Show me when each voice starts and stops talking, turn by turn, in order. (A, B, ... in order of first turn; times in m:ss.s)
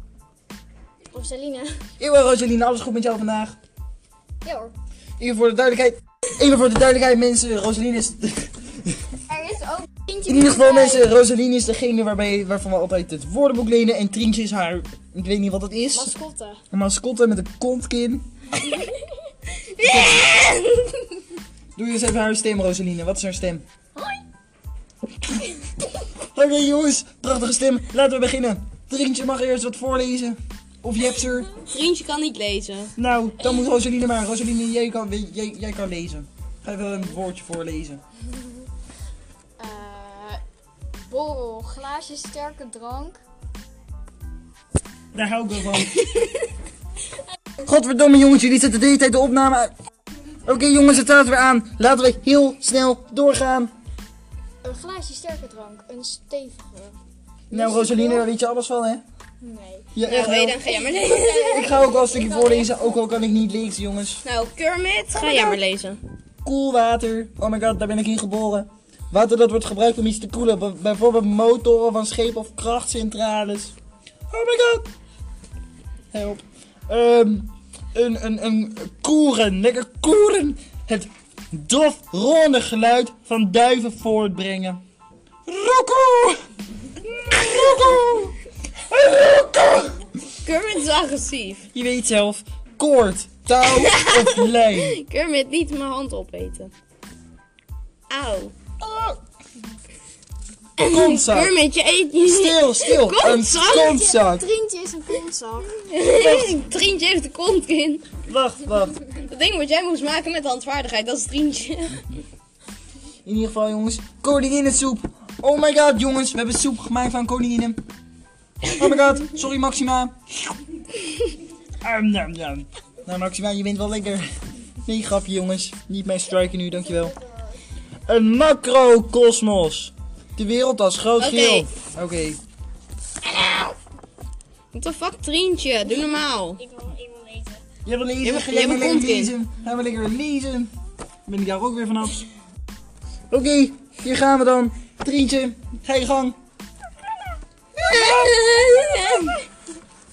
0:01.1-0:01.8 A
0:02.0-0:03.5 B
0:04.4-0:04.7 A
0:05.2-0:09.0 B
0:09.3-0:11.1 A
0:10.3-0:16.1 B
0:15.9-0:16.6 A
0:16.7-0:18.2 B
0:19.7-0:21.0 C
0:21.8-0:23.6 B
0:26.3-0:31.6 B
0:31.6-0:32.9 C
0:33.0-0:38.0 B
0:39.6-0:40.4 A
0:41.1-0:43.2 A
0:45.1-0:46.0 B
0:47.6-0:49.7 B
0:50.4-0:53.7 B
0:54.6-0:57.0 A
0:57.5-0:59.0 B
0:57.5-0:58.3 A
0:59.4-0:59.9 A
1:00.0-1:00.7 B
1:00.1-1:01.8 C
1:00.6-1:03.0 A
1:01.3-1:04.2 B
1:04.2-1:06.0 C
1:05.1-1:05.6 B
1:06.4-1:13.7 B
1:14.3-1:14.9 B
1:16.1-1:24.8 B
1:25.4-1:26.4 B
1:27.0-1:28.3 B
1:27.7-1:28.0 C
1:28.9-1:30.0 B
1:30.4-1:31.7 C
1:31.7-1:35.0 B
1:33.6-1:36.7 C
1:38.1-1:38.5 C
1:38.8-1:39.2 B
1:40.8-1:44.1 C
1:40.8-1:41.5 B
1:42.2-1:44.4 B
1:43.6-1:45.7 A
1:45.7-1:48.0 C
1:46.2-1:46.6 B
1:48.3-1:49.0 B
1:49.2-1:52.1 C
1:53.2-1:57.8 B
1:58.7-2:00.1 B
2:01.8-2:04.3 B
2:04.8-2:07.1 B
2:07.0-2:07.3 A
2:08.1-2:12.4 B
2:11.2-2:11.7 C
2:13.3-2:13.7 C
2:14.7-2:16.6 C
2:16.6-2:17.6 A
2:17.8-2:20.7 B
2:18.2-2:19.3 C
2:21.2-2:22.2 B
2:23.3-2:26.4 B
2:27.8-2:28.4 B
2:27.9-2:29.5 C